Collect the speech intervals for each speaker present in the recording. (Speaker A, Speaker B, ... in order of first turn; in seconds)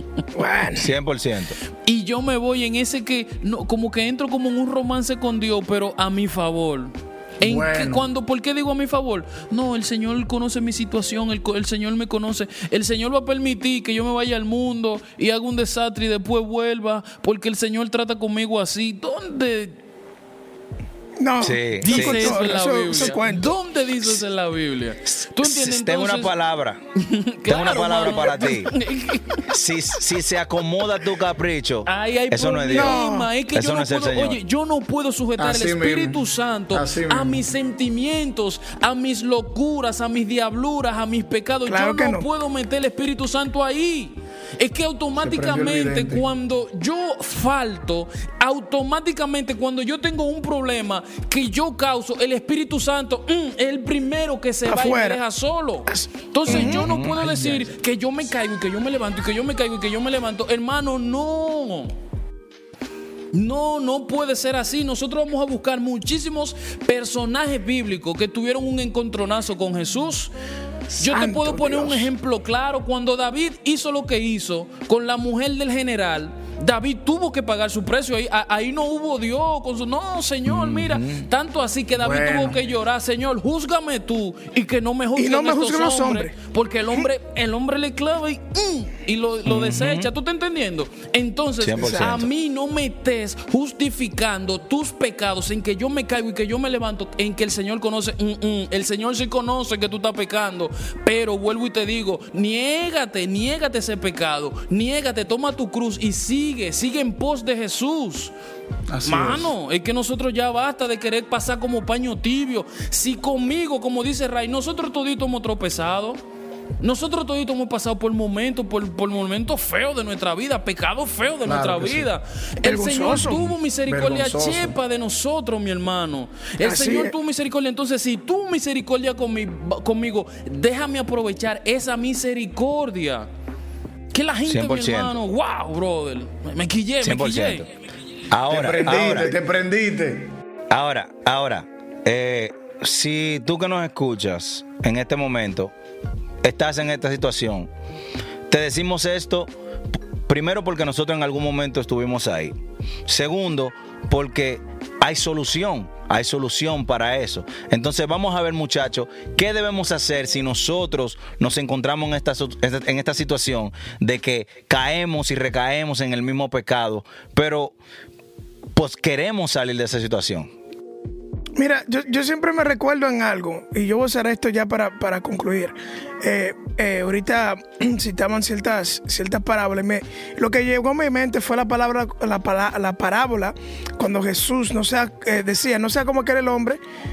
Speaker A: 0.3-0.9, 21.2-23.6, 32.7-33.3, 41.7-42.2, 54.7-55.2, 55.9-56.9, 71.0-72.1, 85.2-86.3, 122.6-123.5, 126.6-127.1, 171.6-186.8
Speaker B: 0.8-1.6, 21.4-22.5, 25.1-26.8, 27.5-28.7, 29.5-33.0, 33.5-34.4, 56.5-57.4, 80.5-81.3, 89.5-90.1, 91.6-92.3, 134.5-135.1, 137.0-137.7, 138.3-139.4, 140.7-145.7, 146.4-147.7, 148.5-149.5, 150.3-152.6, 153.1-167.7, 168.8-170.5
Speaker C: 1.9-19.8, 21.8-26.3, 27.0-29.5, 31.9-61.9, 63.3-70.3, 71.0-108.3, 109.0-116.2, 116.8-133.3, 134.1-137.7
Speaker D: 7.4-8.1, 35.4-37.4, 45.2-46.2, 57.2-57.6, 82.0-82.6, 108.9-109.5, 121.4-122.1, 123.9-124.8, 138.5-140.3